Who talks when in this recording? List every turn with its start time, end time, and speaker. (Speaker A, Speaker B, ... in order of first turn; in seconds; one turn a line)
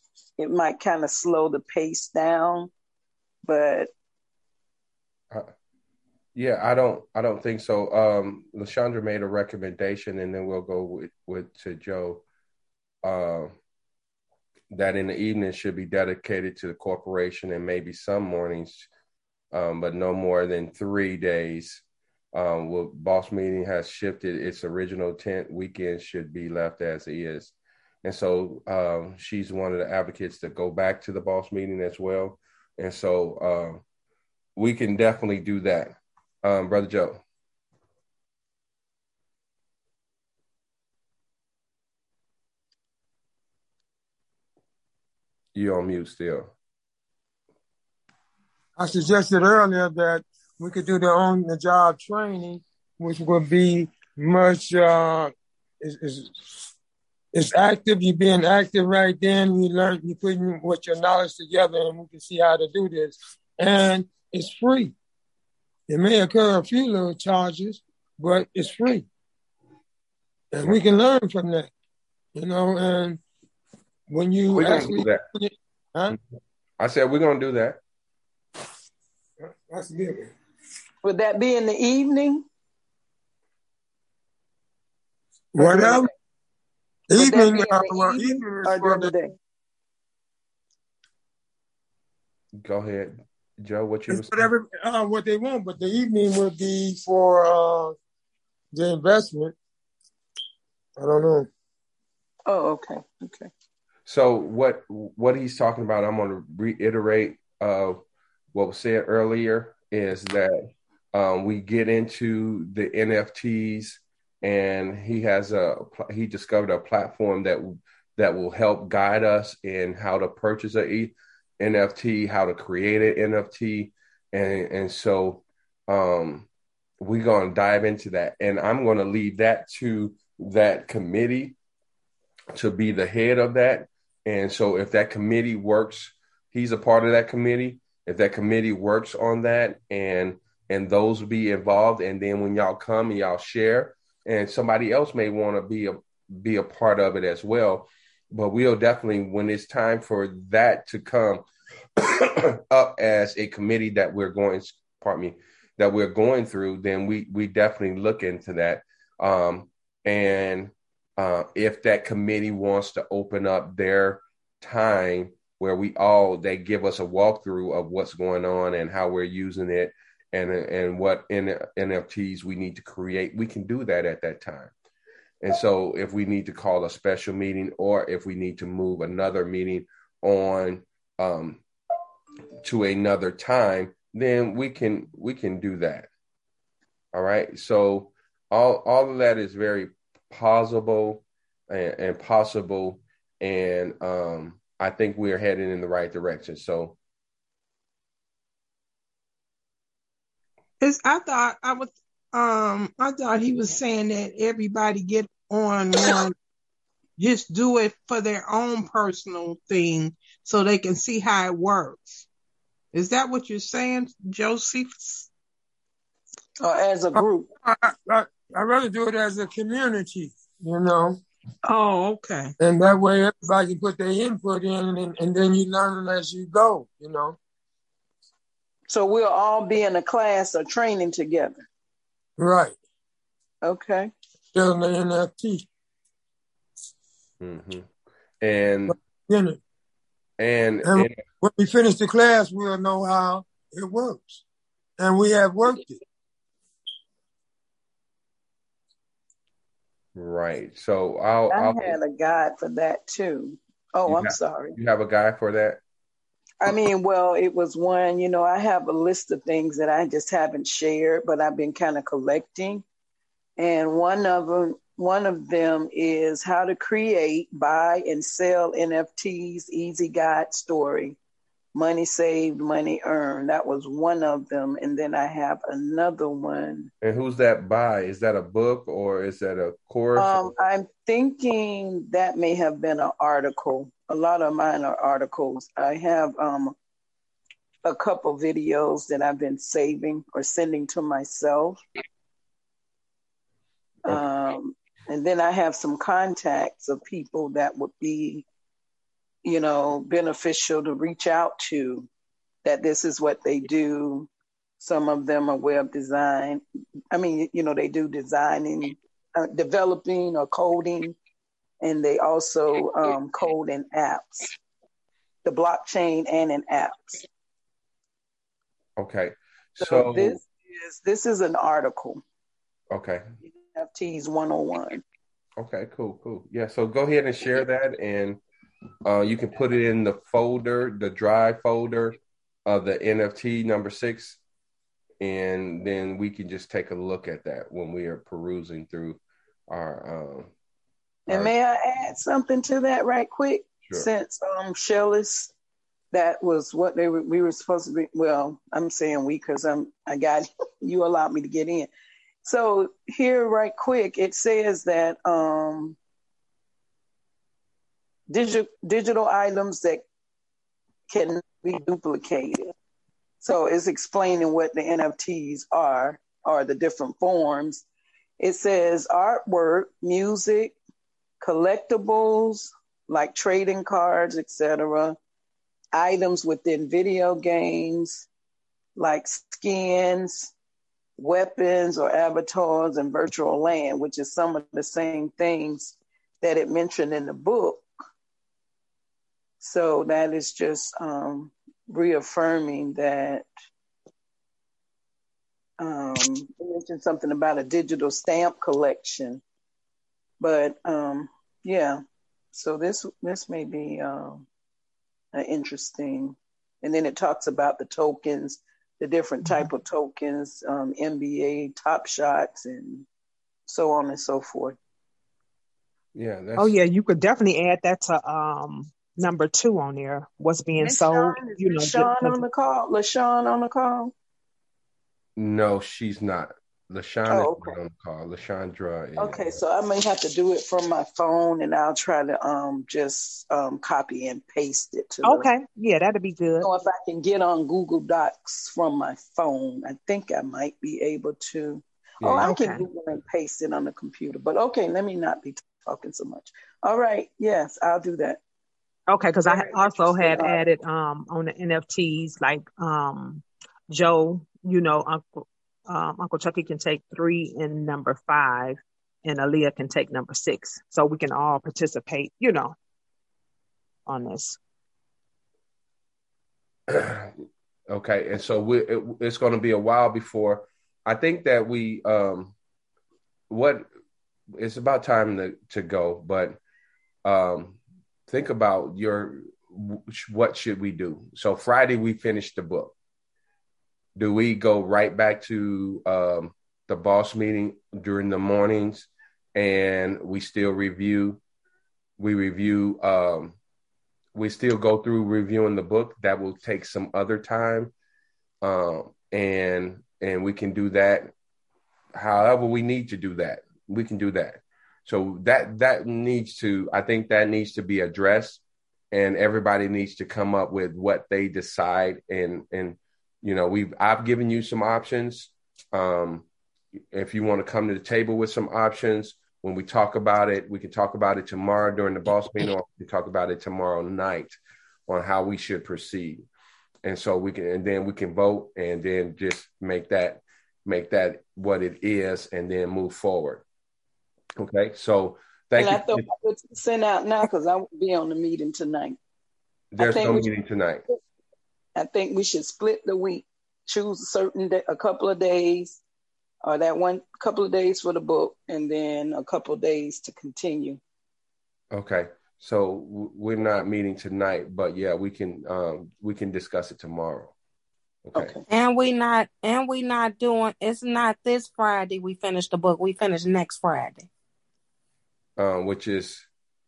Speaker A: 0.4-2.7
Speaker A: 3.5-3.9
Speaker B: 6.3-12.2
Speaker B: 13.0-13.5
Speaker B: 14.7-18.9
Speaker B: 19.5-21.8
Speaker B: 22.3-27.5
Speaker B: 28.0-33.8
Speaker B: 34.6-37.2
Speaker B: 45.5-46.5
Speaker C: 48.8-56.5
Speaker C: 57.3-65.0
Speaker C: 65.9-69.1
Speaker C: 70.5-71.7
Speaker C: 72.3-73.2
Speaker C: 74.1-76.2
Speaker B: 74.5-75.2
Speaker B: 76.8-77.8
Speaker C: 79.4-80.3
Speaker A: 81.0-82.5
Speaker C: 85.5-86.1
Speaker A: 85.6-86.1
Speaker C: 87.1-89.1
Speaker A: 87.2-89.3
Speaker B: 92.6-94.5
Speaker C: 94.1-98.0
Speaker C: 98.7-99.6
Speaker C: 101.0-101.5
Speaker A: 102.5-103.5
Speaker B: 104.1-108.0
Speaker B: 108.5-110.6
Speaker B: 111.1-126.5
Speaker B: 127.0-131.6
Speaker B: 132.6-151.5
Speaker B: 152.0-174.7
Speaker B: 175.4-181.6
Speaker B: 182.6-186.1
Speaker B: 187.1-197.0
Speaker D: 200.8-206.3
Speaker D: 207.2-212.3
Speaker D: 212.9-215.3
Speaker A: 216.6-217.5
Speaker C: 217.1-221.2
Speaker D: 221.6-222.5
Speaker C: 222.6-227.4
Speaker A: 228.9-231.7
Speaker C: 232.4-232.8
Speaker A: 233.6-234.1
Speaker C: 234.5-235.7
Speaker B: 237.4-237.9
Speaker B: 238.4-239.0
Speaker C: 238.9-239.6
Speaker B: 240.4-241.2
Speaker C: 240.8-244.4
Speaker C: 245.0-246.0
Speaker B: 250.2-252.0
Speaker A: 251.5-254.8
Speaker B: 254.1-255.8
Speaker A: 256.6-262.8
Speaker A: 263.6-271.2
Speaker A: 271.7-276.9
Speaker B: 277.0-280.5
Speaker A: 280.2-286.7
Speaker A: 287.8-291.8
Speaker A: 294.1-298.5
Speaker A: 299.4-302.1
Speaker A: 302.6-311.2
Speaker A: 311.8-314.5
Speaker A: 315.4-317.3
Speaker B: 319.0-320.4
Speaker A: 319.8-322.2
Speaker B: 322.9-323.2
Speaker A: 323.4-325.0
Speaker B: 325.6-328.4
Speaker B: 329.1-334.4
Speaker B: 335.2-340.5
Speaker A: 341.3-345.5
Speaker A: 346.1-351.9
Speaker A: 352.4-356.0
Speaker A: 358.3-360.1
Speaker A: 361.1-362.7
Speaker A: 363.4-367.9
Speaker A: 368.4-370.8
Speaker A: 371.4-375.2
Speaker A: 375.9-378.3
Speaker A: 379.0-380.5
Speaker A: 381.2-387.9
Speaker A: 389.6-393.5
Speaker A: 395.8-399.4
Speaker A: 400.4-402.0
Speaker A: 402.5-404.5
Speaker A: 405.3-413.1
Speaker A: 413.7-414.8
Speaker B: 416.1-416.8
Speaker E: 416.6-422.4
Speaker A: 420.8-424.1
Speaker B: 425.4-429.6
Speaker A: 427.3-427.8
Speaker A: 429.2-435.5
Speaker E: 435.2-436.7
Speaker A: 436.6-448.4
Speaker B: 442.2-442.5
Speaker E: 442.4-442.9
Speaker E: 449.1-462.8
Speaker A: 449.5-450.6
Speaker E: 464.1-464.6
Speaker B: 466.9-467.3
Speaker B: 467.9-472.5
Speaker B: 473.5-473.9
Speaker B: 474.6-476.6
Speaker B: 477.2-482.9
Speaker B: 484.2-491.4
Speaker B: 492.2-493.6
Speaker B: 494.4-497.9
Speaker B: 498.6-501.3
Speaker B: 502.1-508.6
Speaker B: 509.1-516.5
Speaker B: 517.1-526.5
Speaker B: 527.0-533.6
Speaker B: 534.6-536.3
Speaker A: 535.8-539.2
Speaker B: 539.9-541.0
Speaker A: 540.0-540.5
Speaker A: 542.0-546.0
Speaker A: 546.6-551.0
Speaker B: 551.9-557.5
Speaker B: 558.2-558.5
Speaker A: 558.4-558.6
Speaker F: 558.7-564.3
Speaker B: 565.6-566.5